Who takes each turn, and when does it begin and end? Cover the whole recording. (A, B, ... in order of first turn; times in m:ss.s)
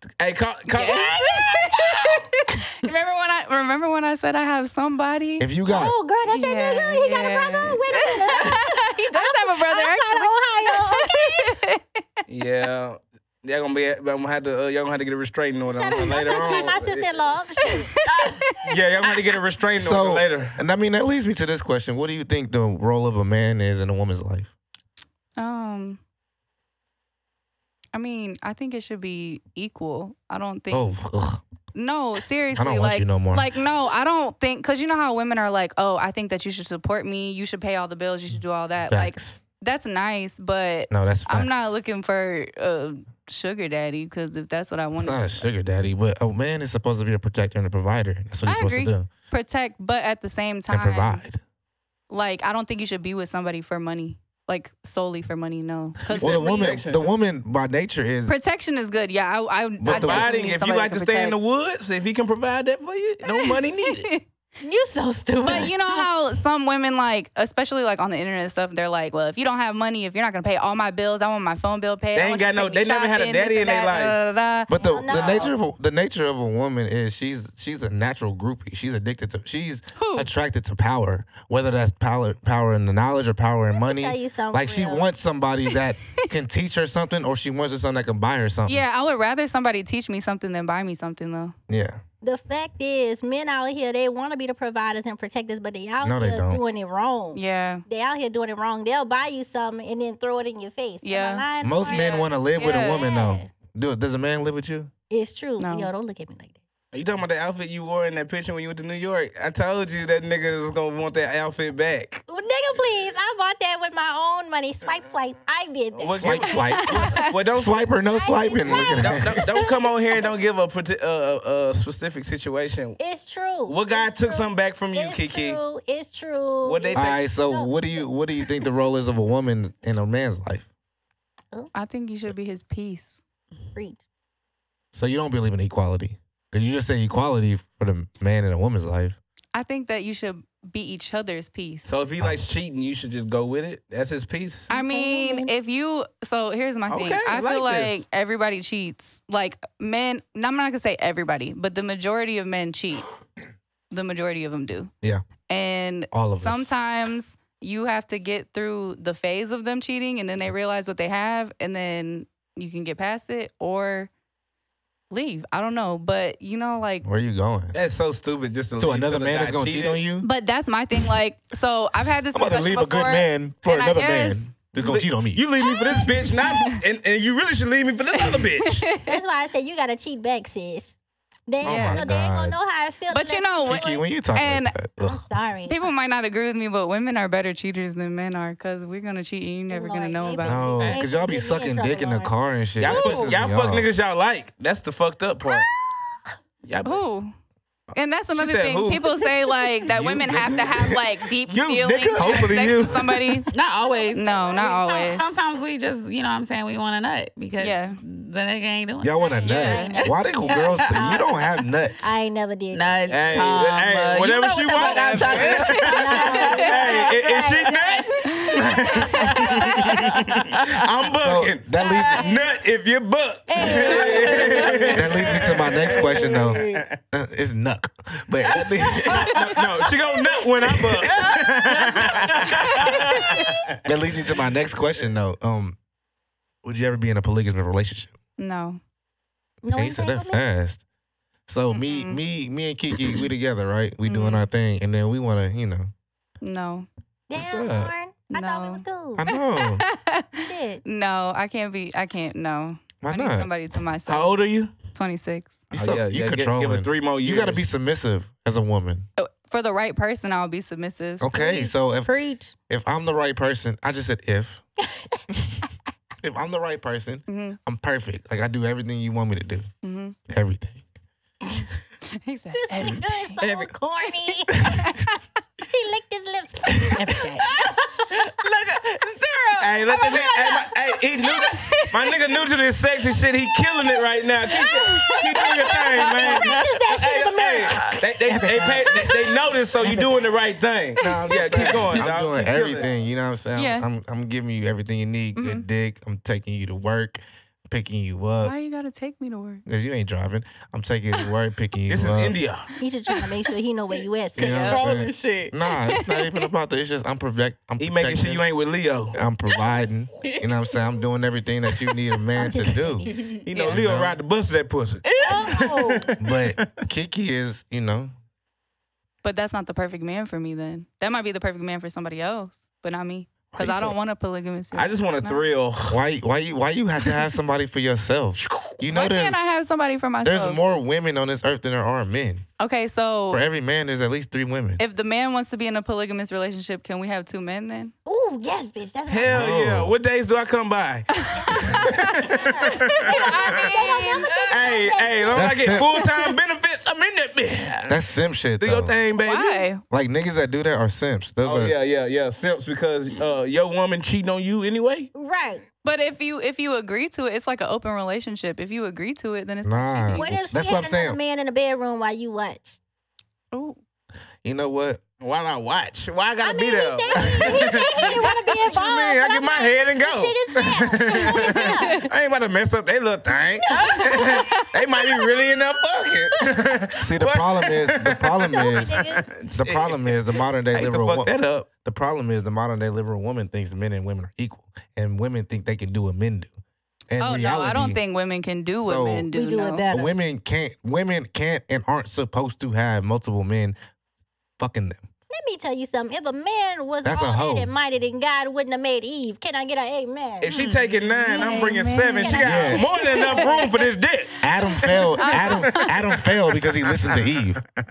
0:00.2-0:01.4 A
0:00.7-0:05.5 B
0:00.8-0:02.2 C
0:05.4-0:05.9 D
0:05.7-0:11.6 C
0:06.3-0:12.0 B
0:12.3-0:17.1 A
0:15.6-0:17.9 C
0:17.7-0:18.6 B
0:18.1-0:18.4 E
0:18.6-0:20.6 A
0:19.8-0:24.5 D
0:25.4-0:26.0 B
0:27.9-0:30.9 B
0:30.7-0:31.4 D
0:31.7-0:45.4 B
0:32.5-0:33.5 D
0:38.9-0:39.4 D
0:40.9-0:41.7 D
0:45.0-0:49.1 D
0:48.4-0:51.2 B
0:50.7-0:51.4 D
0:52.1-0:56.8 B
0:56.0-0:57.1 A
0:56.2-0:58.3 D
0:58.2-1:01.4 B
0:59.8-1:00.3 D
0:59.9-1:04.1 A
1:03.2-1:04.2 B
1:04.6-1:05.7 C
1:05.4-1:06.0 E
1:05.4-1:15.5 B
1:12.1-1:14.2 A
1:14.7-1:28.8 D
1:14.7-1:15.5 C
1:20.0-1:20.3 B
1:23.7-1:25.1 C
1:28.6-1:31.5 B
1:31.7-1:32.0 D
1:32.2-1:43.5 C
1:36.0-1:36.6 D
1:37.3-1:37.8 B
1:41.0-1:43.1 B
1:41.6-1:44.9 D
1:45.1-1:46.5 C
1:45.6-1:45.9 B
1:46.9-1:52.2 A
1:52.3-1:57.2 C
1:55.9-1:57.8 A
1:56.2-1:59.4 D
1:56.7-1:57.3 B
1:58.1-1:59.7 C
1:58.6-2:03.0 A
2:03.0-2:07.8 C
2:03.7-2:05.6 A
2:06.6-2:07.2 A
2:06.9-2:10.7 D
2:11.7-2:13.2 B
2:13.7-2:14.0 C
2:14.9-2:19.2 D
2:19.5-2:21.9 B
2:21.8-2:24.7 A
2:24.7-2:33.1 B
2:24.7-2:25.5 C
2:26.9-2:28.0 A
2:33.9-2:34.9 B
2:35.5-2:44.1 B
2:36.1-2:36.7 D
2:45.1-2:47.0 B
2:47.0-2:47.8 D
2:47.7-2:50.0 A
2:48.8-2:50.3 D
2:50.2-2:54.5 B
2:52.3-2:55.4 D
2:54.8-2:58.8 A
2:55.6-2:56.3 C
2:56.6-2:56.8 B
2:58.2-2:59.2 B
2:59.0-3:01.0 C
3:01.5-3:04.0 C
3:01.6-3:02.6 D
3:01.6-3:02.1 B
3:03.1-3:04.7 B
3:03.6-3:05.2 D
3:05.0-3:05.9 C
3:05.7-3:10.8 B
3:09.7-3:12.3 C
3:10.4-3:13.9 D
3:10.8-3:11.0 E
3:12.8-3:15.7 A
3:16.6-3:17.0 A
3:16.8-3:17.3 B
3:17.9-3:19.3 A
3:17.9-3:23.5 B
3:19.9-3:21.0 D
3:20.0-3:20.8 A
3:21.5-3:23.4 A
3:21.8-3:22.5 D
3:23.5-3:31.3 E
3:23.8-3:24.7 C
3:24.1-3:25.3 B
3:27.6-3:28.0 B
3:29.0-3:32.2 D
3:29.4-3:33.5 C
3:29.5-3:29.8 B
3:32.7-3:37.0 E
3:33.1-3:47.0 A
3:34.7-3:36.7 B
3:35.8-3:40.1 C
3:38.3-3:39.3 B
3:41.2-3:42.2 D
3:41.8-3:42.4 C
3:43.5-3:46.8 C
3:43.6-3:45.0 E
3:44.9-3:49.4 D
3:49.1-3:53.8 A
3:51.2-3:53.2 E
3:52.7-3:53.0 C
3:53.8-3:55.8 D
3:56.6-3:58.2 D
3:58.4-3:58.8 B
3:59.6-4:00.4 C
3:59.7-4:00.8 D
4:01.5-4:05.9 D
4:01.7-4:02.2 B
4:04.0-4:04.5 B
4:06.4-4:06.9 B
4:07.3-4:09.3 C
4:07.3-4:07.9 D
4:08.3-4:15.6 B
4:09.2-4:09.8 D
4:10.3-4:10.8 C
4:13.0-4:13.5 D
4:14.1-4:14.7 A
4:15.7-4:19.1 D
4:15.7-4:17.6 A
4:19.2-4:21.3 B
4:21.2-4:22.1 D
4:21.3-4:22.5 C
4:22.7-4:24.6 D
4:24.8-4:25.2 C
4:25.3-4:25.6 D
4:26.2-4:29.7 D
4:27.3-4:27.6 B
4:29.8-4:30.2 B
4:30.3-4:30.8 D
4:32.1-4:33.2 B
4:32.5-4:37.5 C
4:33.4-4:33.7 E
4:34.8-4:35.1 B
4:37.0-4:40.7 E
4:39.6-4:52.9 A
4:39.9-4:40.7 C
4:41.4-4:41.9 B
4:44.6-4:50.2 C
4:44.7-4:45.1 B
4:45.1-4:46.7 E
4:51.0-4:58.5 D
4:53.5-4:53.9 B
4:55.4-4:55.6 B
4:58.4-4:59.6 B
4:59.6-5:02.4 D
5:01.9-5:02.7 A
5:02.8-5:04.8 C
5:03.1-5:03.4 B
5:04.4-5:08.4 D
5:04.4-5:05.5 E
5:04.4-5:04.8 B
5:06.0-5:06.3 B
5:07.8-5:09.1 A
5:09.1-5:14.2 D
5:12.4-5:13.2 C
5:13.0-5:13.4 E
5:13.4-5:16.8 A
5:13.5-5:13.8 B
5:15.0-5:15.8 E
5:15.2-5:16.1 C
5:16.2-5:18.1 D
5:19.2-5:25.4 B
5:23.5-5:24.0 D
5:24.7-5:26.0 A
5:25.9-5:29.4 D
5:28.9-5:30.6 B
5:30.2-5:32.4 D
5:32.6-5:33.4 B
5:33.3-5:34.8 D
5:34.8-5:37.9 B
5:38.0-5:39.5 C
5:39.1-5:43.6 A
5:39.3-5:40.0 D
5:41.1-5:44.3 B
5:41.4-5:46.1 C
5:44.3-5:44.7 E
5:44.5-5:48.0 A
5:45.3-5:45.9 D
5:47.9-5:49.0 D
5:48.6-5:49.7 A
5:49.2-5:49.8 B
5:49.9-5:51.7 D
5:51.4-5:55.1 A
5:55.1-5:55.6 C
5:55.8-6:00.3 B
5:59.6-6:01.2 D
6:00.1-6:02.8 C
6:03.5-6:03.8 B
6:04.4-6:05.0 D
6:05.2-6:20.2 A
6:06.4-6:12.1 C
6:11.1-6:12.1 B
6:13.3-6:14.6 C
6:17.0-6:21.3 D
6:18.5-6:19.2 C
6:20.7-6:21.7 A
6:21.8-6:26.5 D
6:27.1-6:28.0 D
6:27.2-6:29.9 B
6:28.8-6:29.3 D
6:29.3-6:30.1 C
6:29.9-6:33.8 D
6:34.6-6:35.0 D
6:35.3-6:40.5 C
6:37.0-6:37.7 D
6:40.4-6:45.9 A
6:40.5-6:40.8 E
6:41.1-6:43.7 B
6:42.2-6:43.7 C
6:42.4-6:42.8 D
6:44.4-6:47.6 D
6:45.1-6:46.0 B
6:46.8-6:47.4 A